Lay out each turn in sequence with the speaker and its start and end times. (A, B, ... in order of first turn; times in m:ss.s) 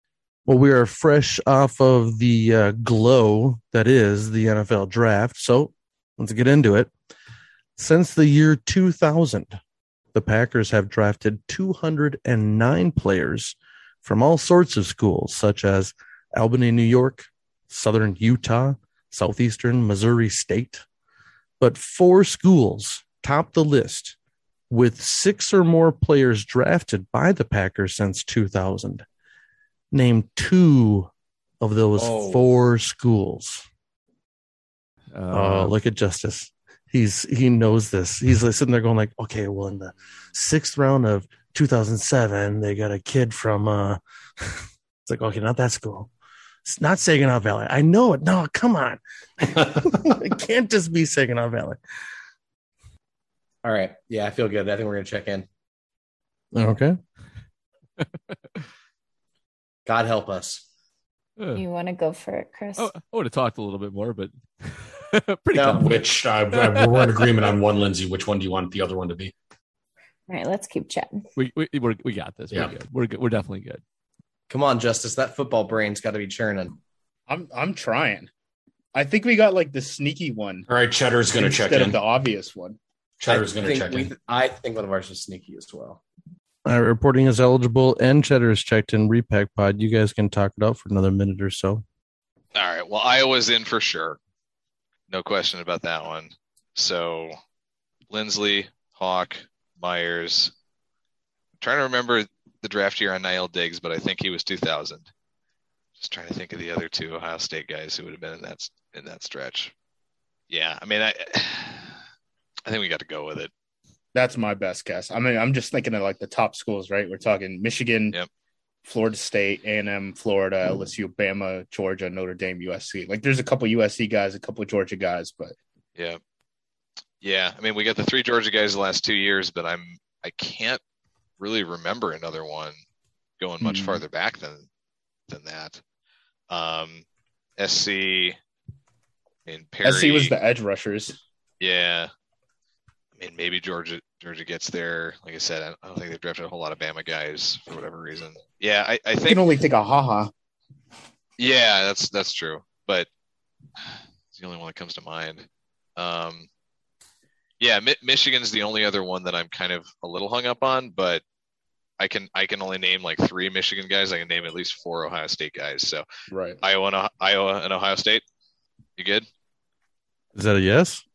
0:00.5-0:06.9 A
0:07.8-0:09.6 A
0:10.1-0:20.8 A
0:21.6-0:24.2 A
0:24.7-0:29.0 A
0:29.9-0:31.1 A
0:31.6-0:33.7 A
0:35.1-0:35.8 B
0:35.3-0:46.1 A
0:46.6-0:51.8 A
0:53.6-0:55.5 C
0:56.5-0:57.0 A
0:59.9-1:00.6 C
1:01.4-1:01.6 B
1:01.6-1:02.9 D
1:02.8-1:07.1 B
1:05.5-1:05.9 C
1:05.8-1:09.3 E
1:10.3-1:11.2 D
1:11.4-1:13.8 B
1:14.5-1:16.8 C
1:17.3-1:18.3 F
1:18.9-1:20.7 F
1:20.7-1:22.0 E
1:21.3-1:22.8 F
1:23.2-1:24.1 E
1:23.3-1:26.0 C
1:26.7-1:31.8 A
1:32.6-1:34.2 G
1:35.1-1:37.3 G
1:38.1-1:40.5 G
1:41.6-1:45.1 G
1:46.0-1:49.7 G
1:50.5-1:51.9 G
1:52.7-1:53.5 G
1:54.2-1:58.2 F
1:58.8-2:05.6 F
2:07.2-2:10.8 G
2:11.4-2:12.8 G
2:13.4-2:14.7 G
2:13.6-2:14.0 F
2:15.3-2:15.8 G
2:16.5-2:17.0 G
2:17.6-2:18.4 G
2:19.5-2:20.4 G
2:19.8-2:21.2 F
2:21.6-2:22.1 G
2:23.2-2:29.5 G
2:29.3-2:30.3 F
2:31.4-2:33.1 G
2:34.3-2:35.5 G
2:36.0-2:36.5 G
2:37.6-2:41.2 G
2:42.0-2:46.0 G
2:46.3-2:46.6 F
2:46.6-2:48.2 G
2:49.0-2:49.3 G
2:50.4-2:51.0 A